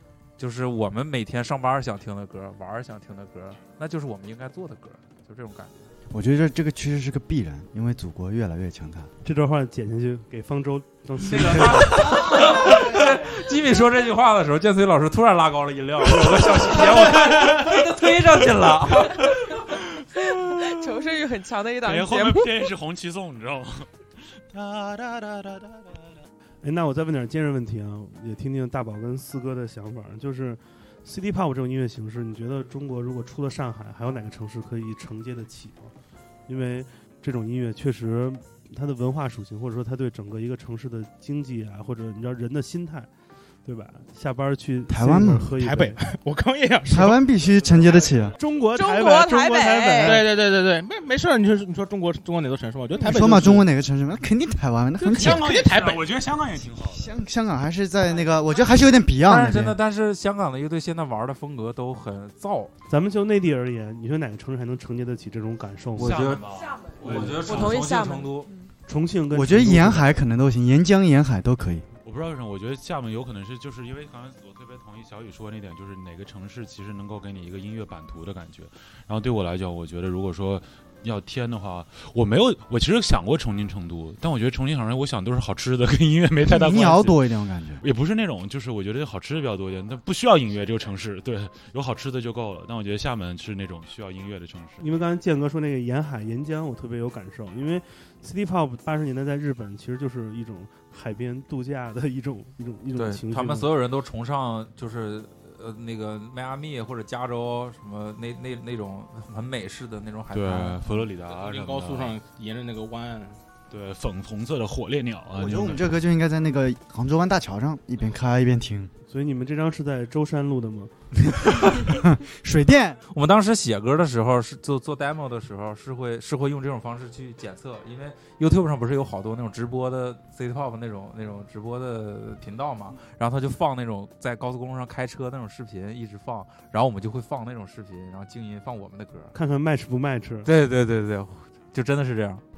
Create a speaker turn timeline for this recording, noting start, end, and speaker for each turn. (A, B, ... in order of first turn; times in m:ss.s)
0:00.4-0:05.9 A
0:06.1-0:09.1 B
0:09.2-0:12.8 C
0:11.2-0:19.4 A
0:20.4-0:22.7 D
0:21.9-0:23.9 E
0:24.5-0:25.8 E
0:26.6-0:35.9 C
0:36.5-0:43.1 C
0:43.6-0:46.0 C
0:44.9-0:45.5 B
0:45.6-0:47.2 F
0:46.9-0:48.4 B
0:48.4-0:50.3 C
0:48.8-0:50.2 D
0:50.0-0:53.7 F
0:53.0-0:55.5 B
0:55.0-0:56.2 F
0:55.6-0:57.1 E
0:56.8-0:59.8 B
0:59.2-1:02.7 A
1:02.9-1:06.4 C
1:06.0-1:06.4 A
1:06.0-1:07.8 E
1:06.5-1:08.7 D
1:07.0-1:08.5 A
1:08.9-1:10.2 C
1:09.3-1:11.9 B
1:12.0-1:27.2 E
1:26.4-1:27.8 B
1:27.8-1:34.8 E
1:34.8-1:43.7 C
1:43.0-1:51.1 A
1:50.3-1:52.2 E
1:51.2-1:53.4 F
1:53.7-1:55.9 E
1:55.4-1:58.9 B
1:59.1-2:00.9 C
2:01.6-2:03.0 B
2:03.1-2:19.3 A
2:19.3-2:20.5 C
2:20.4-2:22.4 A